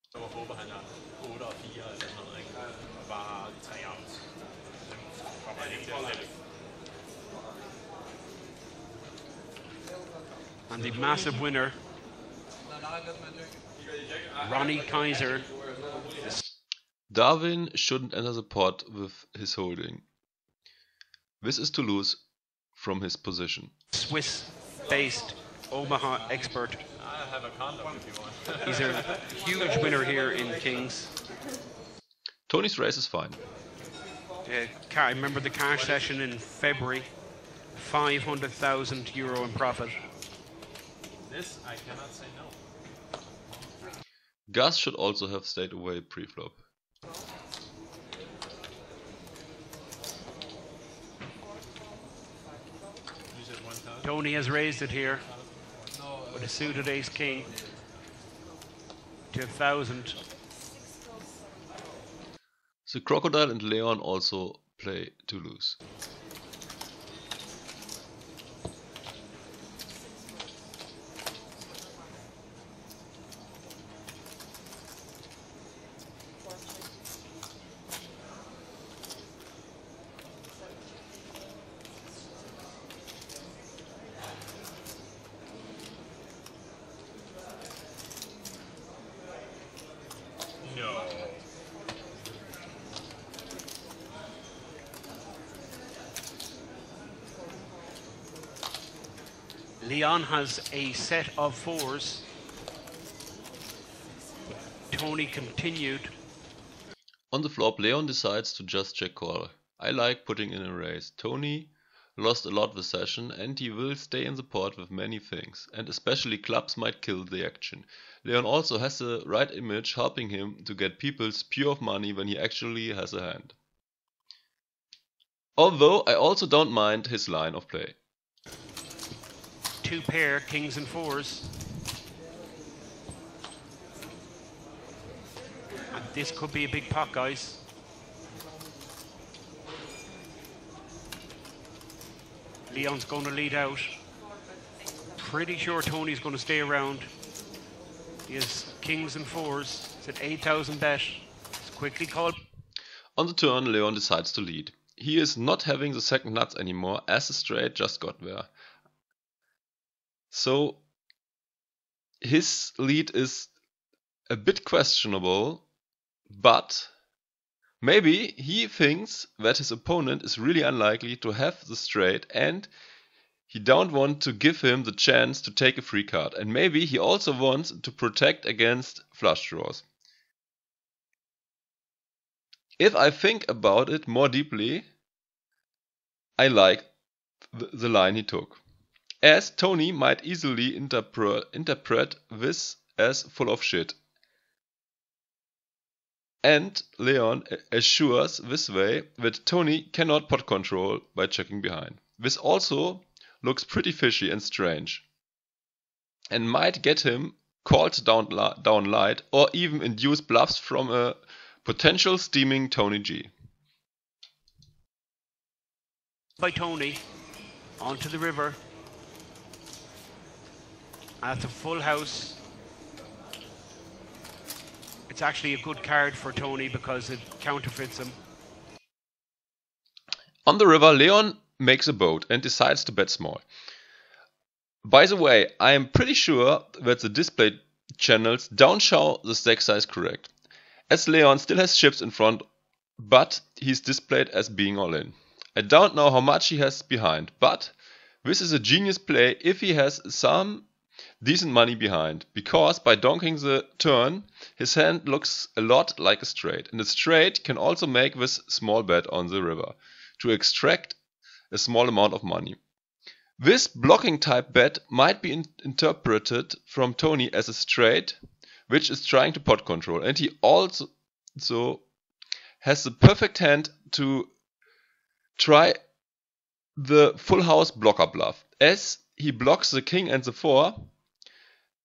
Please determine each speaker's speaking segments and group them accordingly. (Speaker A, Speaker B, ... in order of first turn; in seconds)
Speaker A: 0.1-4.2, 4.9-6.3, 10.8-11.3, 27.0-29.0, 35.9-36.2, 41.3-42.6, 53.3-55.9, 90.6-91.4
Speaker B: 10.7-11.8, 14.4-15.5, 23.9-26.8, 28.7-31.1, 34.5-37.1, 37.8-40.0, 54.0-55.2, 56.3-57.5, 59.3-60.2, 99.8-102.2, 104.9-106.1, 129.8-131.6, 135.9-137.6, 142.7-143.9, 145.2-147.0, 148.3-152.4, 216.4-217.0, 217.8-218.6, 221.2-222.3, 225.1-228.2
Speaker C: 17.1-20.1, 21.4-22.2, 22.8-23.7, 32.5-33.4, 44.5-46.6, 62.9-65.8, 107.3-123.6, 125.6-128.0, 153.2-158.5, 160.3-160.8, 162.2-163.5, 164.3-165.6, 166.3-166.9, 167.8-172.7, 173.5-179.8, 182.8-184.8, 186.4-186.9, 187.5-188.6, 189.2-194.0, 196.4-205.1, 206.3-213.3, 230.5-233.4, 234.8-240.3, 240.9-242.4, 243.0-250.7, 251.2-261.0, 261.5-262.6, 263.4-268.2, 268.7-271.9, 272.6-274.3, 275.4-275.8, 276.8-280.9